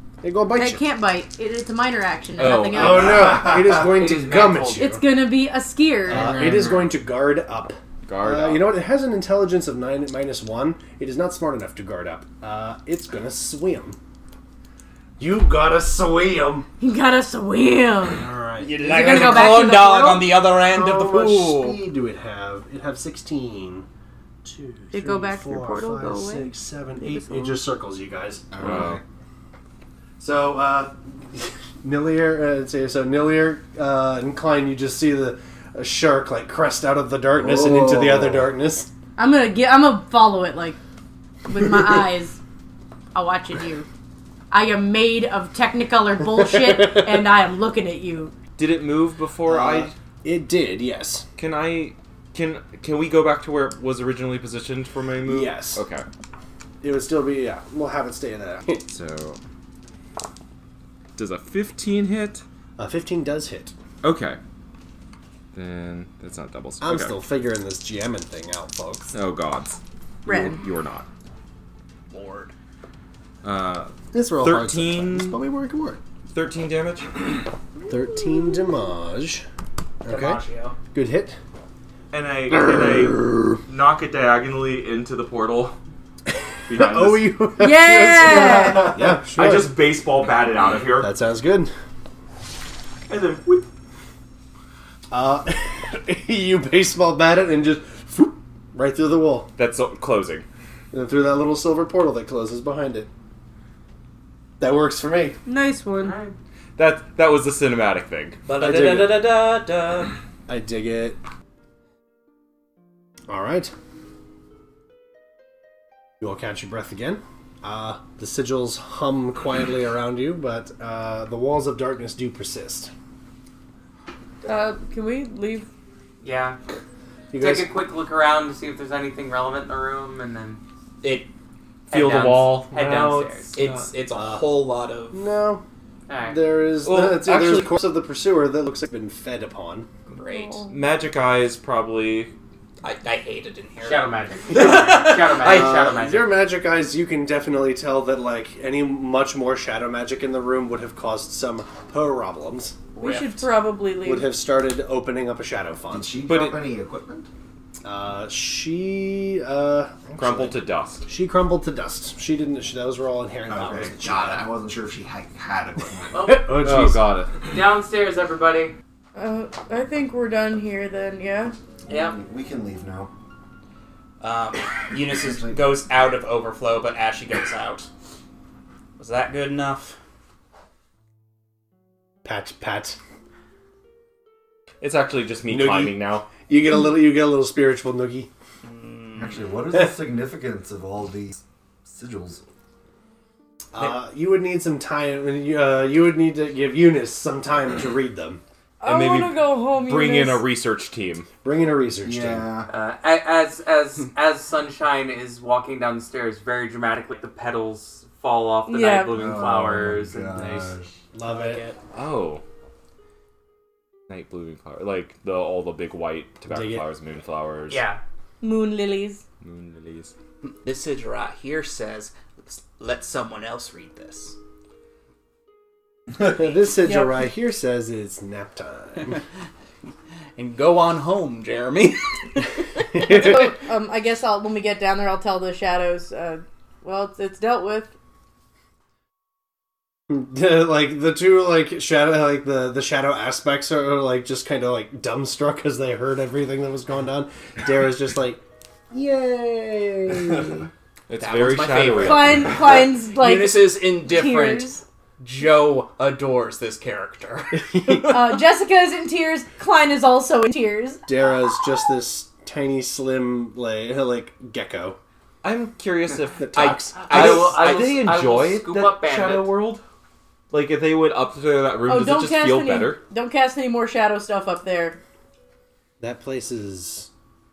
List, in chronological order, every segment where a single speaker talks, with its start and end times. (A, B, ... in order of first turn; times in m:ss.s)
0:00.2-0:00.8 A
0:00.6-0:03.2 B
0:02.4-0:03.4 C
0:02.7-0:05.0 A
0:03.3-0:05.0 D
0:04.8-0:06.3 B
0:06.1-0:14.0 A
0:06.2-0:06.9 E
0:08.1-0:08.7 C
0:15.2-0:16.7 A
0:16.8-0:18.2 B
0:18.1-0:19.7 A
0:18.6-0:21.8 E
0:18.9-0:20.3 B
0:20.5-0:23.9 A
0:24.4-0:28.5 A
0:24.9-0:27.6 B
0:28.5-0:29.0 F
0:28.6-0:29.0 C
0:30.2-0:38.9 A
0:37.4-0:38.5 F
0:39.2-0:40.8 B
0:41.5-0:42.4 B
0:43.1-0:43.9 B
0:44.5-0:48.3 B
0:48.6-0:49.9 C
0:49.5-0:51.3 A
0:51.4-0:56.1 C
0:55.3-0:55.8 A
0:56.8-0:58.8 A
0:58.8-0:59.4 C
1:01.2-1:02.4 C
1:02.8-1:03.8 A
1:04.0-1:04.4 C
1:05.5-1:07.2 C
1:06.8-1:09.1 A
1:09.1-1:11.1 C
1:10.3-1:10.6 B
1:12.2-1:12.5 E
1:13.4-1:15.4 C
1:14.1-1:16.0 A
1:16.3-1:17.4 C
1:17.9-1:19.5 A
1:20.0-1:21.4 A
1:20.1-1:20.8 E
1:22.1-1:25.8 C
1:26.3-1:29.8 A
1:26.7-1:27.4 C
1:27.6-1:29.0 B
1:28.7-1:31.1 C
1:31.0-1:31.7 A
1:33.1-1:33.7 C
1:35.1-1:39.5 A
1:39.6-1:40.4 C
1:40.9-1:43.1 A
1:44.6-1:45.4 A
1:45.5-1:46.2 B
1:46.0-1:46.4 D
1:46.8-1:48.8 C
1:48.5-1:50.1 E
1:48.6-1:49.3 A
1:50.5-1:51.2 A
1:53.3-1:53.7 A
1:56.2-2:02.9 A
2:04.4-2:05.7 B
2:06.2-2:06.6 D
2:07.3-2:07.7 A
2:07.4-2:10.6 D
2:11.0-2:11.3 E
2:11.9-2:13.9 C
2:11.9-2:13.6 D
2:12.2-2:12.7 E
2:13.5-2:15.2 E
2:14.1-2:14.6 A
2:15.1-2:15.6 A
2:16.1-2:16.4 D
2:16.2-2:19.9 A
2:16.8-2:17.8 C
2:20.1-2:20.7 E
2:20.3-2:20.6 B
2:20.7-2:22.3 C
2:22.8-2:25.4 E
2:23.8-2:26.3 D
2:25.0-2:25.9 C
2:25.4-2:32.8 A
2:33.0-2:34.3 B
2:33.0-2:33.4 E
2:34.0-2:36.2 A
2:35.9-2:37.3 F
2:36.3-2:36.6 C
2:37.8-2:44.5 A
2:40.2-2:41.0 C
2:43.5-2:46.4 F
2:46.1-2:46.5 D
2:46.2-2:47.1 A
2:46.6-2:47.4 C
2:47.4-2:48.7 D
2:49.2-2:51.5 B
2:51.9-2:53.1 F
2:51.9-2:52.2 D
2:54.2-2:57.9 E
2:55.0-2:55.6 F
2:59.0-3:00.0 E
3:02.2-3:03.0 A
3:04.8-3:06.3 C
3:05.5-3:08.3 A
3:08.6-3:09.5 E
3:09.1-3:12.4 F
3:13.7-3:18.4 A
3:18.8-3:20.5 B
3:18.8-3:21.3 C
3:21.4-3:22.5 A
3:22.0-3:22.7 F
3:22.7-3:30.4 D
3:28.7-3:29.1 B
3:29.1-3:30.9 F
3:30.3-3:31.6 A
3:31.2-3:31.8 E
3:31.9-3:32.4 C
3:34.1-3:37.8 C
3:36.5-3:36.8 A
3:37.7-3:38.0 E
3:38.4-3:39.2 B
3:39.4-3:40.1 C
3:40.4-3:44.4 E
3:46.2-3:49.2 A
3:46.8-3:47.2 B
3:50.4-3:52.5 E
3:53.0-3:57.9 B
4:00.1-4:10.7 A
4:11.1-4:12.6 C
4:11.2-4:17.7 E
4:12.0-4:14.8 B
4:17.7-4:18.2 A
4:18.0-4:21.0 B
4:21.1-4:25.0 A
4:25.4-4:29.8 C
4:26.4-4:27.5 A
4:26.5-4:27.9 E
4:27.1-4:29.5 D
4:30.5-4:33.0 C
4:31.9-4:35.0 B
4:36.0-4:37.1 A